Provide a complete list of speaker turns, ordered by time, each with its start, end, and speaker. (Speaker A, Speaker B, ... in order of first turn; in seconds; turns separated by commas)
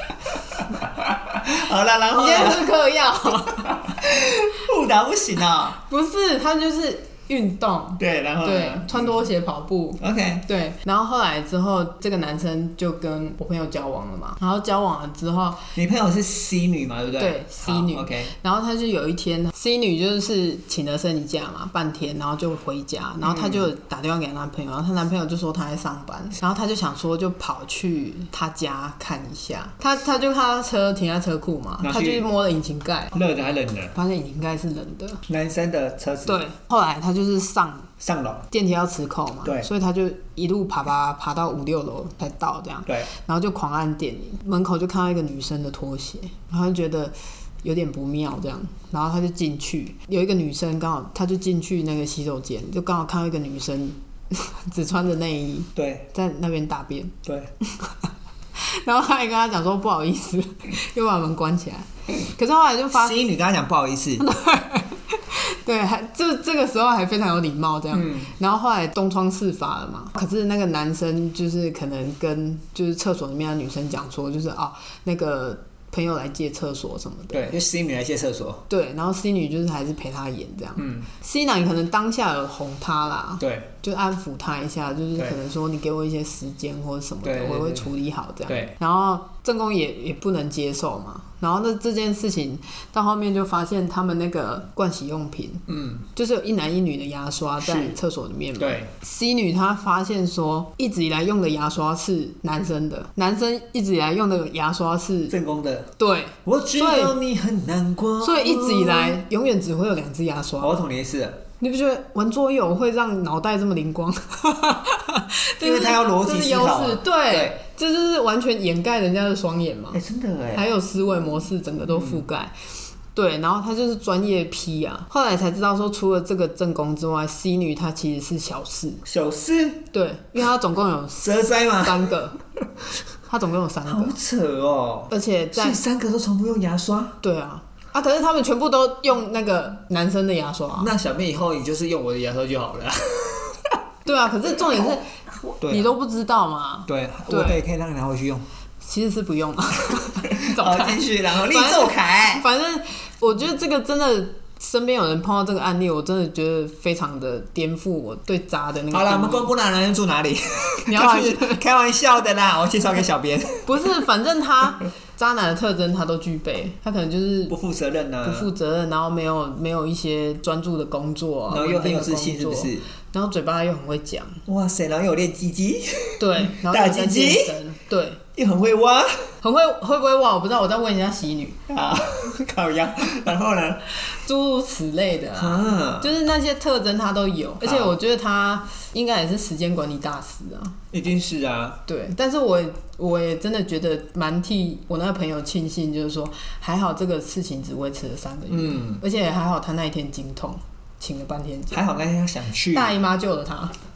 Speaker A: 0.5-2.7, Speaker B: 2.1-3.7, Speaker A: 3.6-5.8, Speaker B: 5.8-15.7, Speaker A: 8.0-9.1, Speaker A: 10.0-10.4, Speaker A: 15.7-18.3, Speaker B: 17.2-33.1, Speaker A: 23.2-23.6, Speaker A: 31.8-32.2, Speaker A: 33.1-34.0, Speaker B: 33.9-35.2, Speaker A: 35.3-36.4, Speaker B: 36.2-37.9, Speaker A: 38.0-38.5, Speaker B: 38.5-63.2, Speaker A: 39.4-39.7, Speaker A: 55.7-56.1, Speaker A: 57.2-57.5, Speaker A: 62.9-64.3, Speaker B: 64.2-77.5, Speaker A: 67.9-68.3, Speaker A: 77.3-78.6, Speaker B: 78.7-105.3, Speaker A: 80.8-81.1, Speaker A: 83.4-83.7, Speaker A: 87.2-87.9, Speaker A: 88.5-88.7, Speaker A: 95.7-96.0, Speaker A: 97.6-98.0, Speaker A: 98.6-98.9, Speaker A: 105.3-105.9, Speaker B: 106.0-107.2, Speaker A: 106.4-109.2, Speaker B: 108.2-110.8, Speaker A: 110.6-111.4, Speaker B: 111.6-120.0, Speaker A: 115.6-117.6, Speaker A: 119.9-120.7, Speaker B: 120.5-122.5, Speaker A: 121.9-122.2, Speaker B: 123.1-129.0, Speaker A: 129.0-129.9, Speaker B: 129.9-132.4, Speaker A: 131.2-132.1, Speaker B: 133.3-134.2, Speaker A: 133.8-137.2, Speaker B: 135.1-135.8, Speaker B: 137.2-140.9, Speaker A: 140.8-143.7, Speaker B: 144.0-145.0, Speaker A: 145.6-145.9, Speaker B: 145.6-147.6, Speaker A: 146.9-148.4, Speaker B: 148.8-159.5, Speaker A: 150.2-152.4, Speaker A: 158.9-163.7, Speaker B: 160.9-161.6, Speaker B: 163.7-167.6, Speaker A: 167.5-168.5, Speaker B: 168.2-174.4, Speaker A: 171.5-172.8, Speaker A: 174.4-177.6, Speaker B: 176.2-178.2, Speaker A: 178.3-179.3, Speaker B: 179.4-181.6, Speaker A: 181.7-184.0, Speaker B: 184.0-190.8, Speaker A: 185.3-186.1, Speaker A: 187.6-187.9, Speaker A: 190.9-191.8, Speaker B: 191.9-201.9, Speaker A: 198.5-199.0, Speaker A: 201.7-203.0, Speaker B: 202.7-203.7